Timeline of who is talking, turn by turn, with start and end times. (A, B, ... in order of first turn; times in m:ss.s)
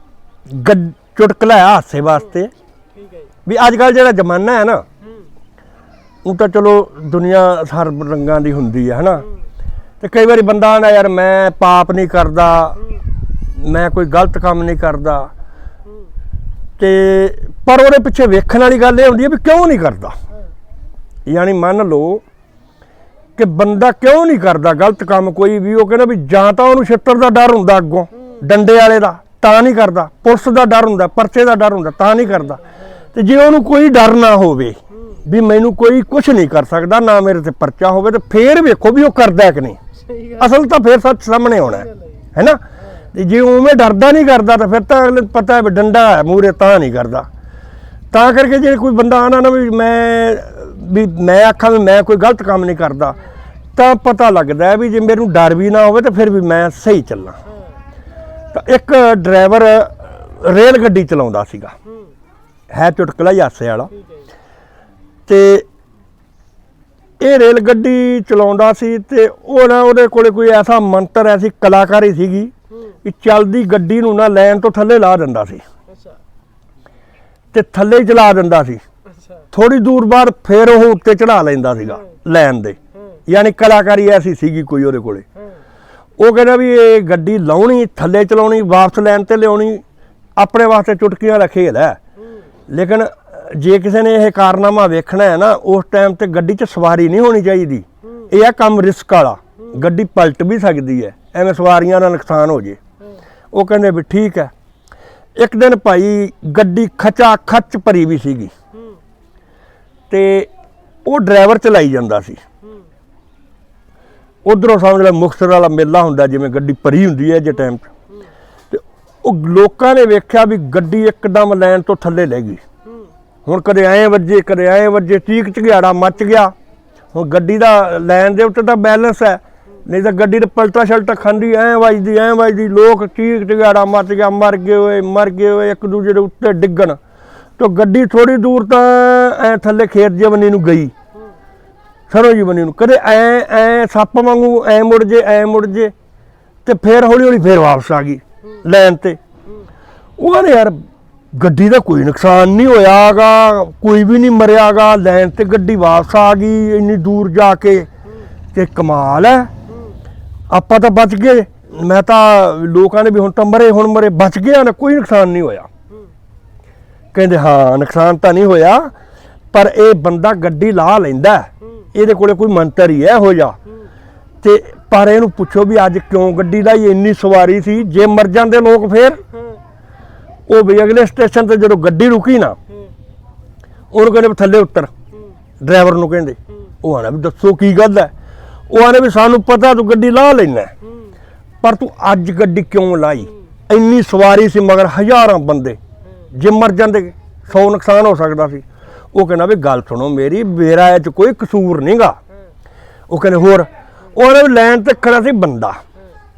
0:00.5-0:02.5 A
0:03.0-0:03.3 B
0:03.4-0:04.8 A
0:06.2-0:09.2 A
0:10.0-0:12.8 A
0:13.4-0:15.3 A
0:16.8-0:20.1 A
0:21.3-0:22.2 A
0:23.4-0:32.6 A
0:33.1-0:39.8 A
0:40.0-0:40.4 B
0:40.4-0:42.6 A
0:43.1-0:47.3 A
0:48.1-0:53.2 A
0:53.8-0:57.4 A
0:57.5-0:57.8 B
0:58.5-1:01.7 A
1:02.7-1:03.9 A
1:03.9-1:04.3 B
1:05.3-1:05.6 A
1:07.2-1:12.5 A
1:13.0-1:15.6 A
1:15.9-1:16.2 B
1:17.5-1:18.8 A
1:19.2-1:19.4 B
1:19.5-1:25.2 A
1:26.2-1:29.8 A
1:30.4-1:32.0 A
1:32.7-1:42.8 A
1:43.5-1:44.5 A
1:45.4-1:48.5 A
1:50.1-1:50.5 A
1:51.0-1:52.4 A
1:54.4-1:57.9 A
1:58.7-2:02.6 A
2:03.4-2:06.5 A
2:07.1-2:17.0 A
2:17.6-2:20.9 A
2:22.1-2:25.9 A
2:26.6-2:29.2 A
2:30.2-2:30.8 A
2:31.3-2:37.9 A
2:38.5-2:39.5 A
2:40.5-2:45.7 A
2:47.1-2:48.9 A
2:49.5-2:53.6 A
2:54.4-2:59.2 A
3:00.5-3:02.6 A
3:03.9-3:04.9 A
3:05.6-3:08.1 A
3:08.7-3:10.7 A
3:11.6-3:15.8 A
3:16.3-3:22.2 A
3:23.1-3:25.8 A